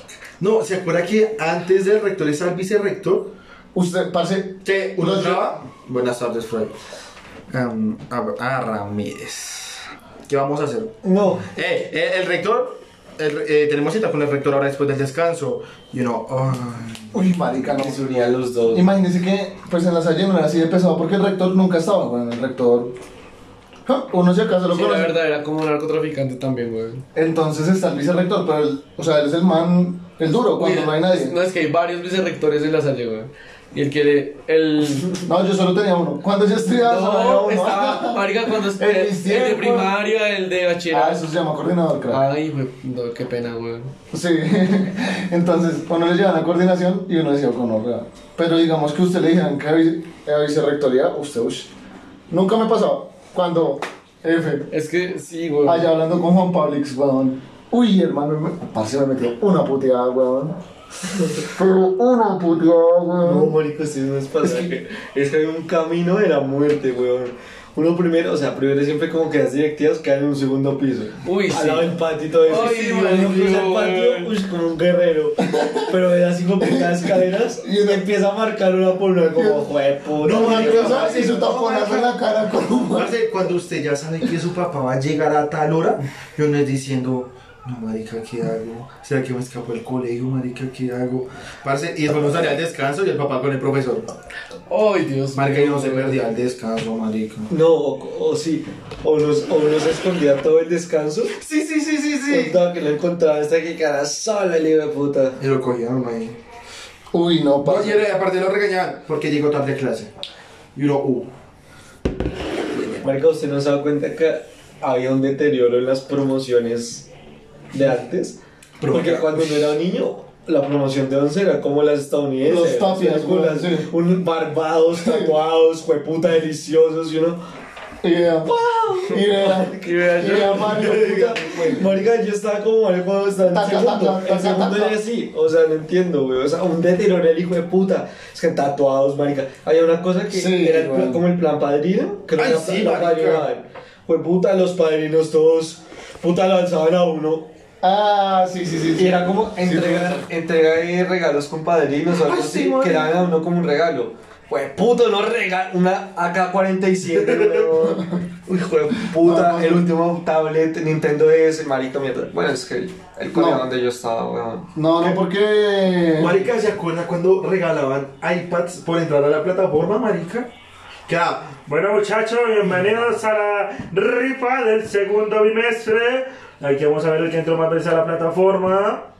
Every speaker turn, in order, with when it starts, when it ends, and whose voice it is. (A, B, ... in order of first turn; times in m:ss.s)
0:00.4-0:03.3 A
0:03.7-0:05.6 B
0:04.6-0:06.7 A
0:07.5-0:10.9 A
0:11.0-0:11.5 C
0:11.5-0:17.2 A
0:17.1-0:18.0 B
0:17.8-0:18.9 C
0:18.7-0:23.0 B
0:23.8-0:25.2 B
0:24.7-0:27.0 D
0:27.1-0:31.4 B
0:30.6-0:35.2 D
0:35.2-0:39.9 B
0:36.7-0:41.3 D
0:40.9-0:42.2 B
0:42.1-0:43.9 D
0:44.1-0:51.7 B
0:52.3-0:54.7 B
0:54.7-0:55.9 D
0:55.6-1:00.6 B
1:01.4-1:03.5 B
1:03.2-1:21.2 C
1:04.4-1:04.7 B
1:11.2-1:14.3 D
1:15.5-1:15.9 B
1:16.6-1:18.0 B
1:19.3-1:19.7 B
1:20.2-1:22.1 A
1:20.2-1:23.1 B
1:22.9-1:34.1 A
1:34.7-1:36.3 D
1:35.3-1:37.5 A
1:37.5-1:41.4 C
1:41.4-1:42.6 A
1:42.3-1:45.4 C
1:45.4-1:46.4 A
1:47.1-1:48.0 B
1:47.6-1:50.1 A
1:50.7-1:51.3 A
1:53.0-1:57.1 C
1:57.7-2:07.4 C
1:58.8-1:59.7 A
2:02.4-2:03.9 B
2:04.9-2:05.3 B
2:08.0-2:11.8 B
2:08.4-2:27.5 C
2:09.8-2:10.8 D
2:13.5-2:15.0 B
2:20.3-2:21.2 B
2:22.4-2:23.5 A
2:27.8-2:30.2 B
2:28.9-2:44.7 C
2:32.2-2:33.2 A
2:37.1-2:37.7 A
2:39.2-2:39.9 B
2:43.3-2:43.6 B
2:44.7-2:46.4 B
2:46.2-2:50.5 A
2:51.1-2:51.6 A
2:51.6-2:59.1 E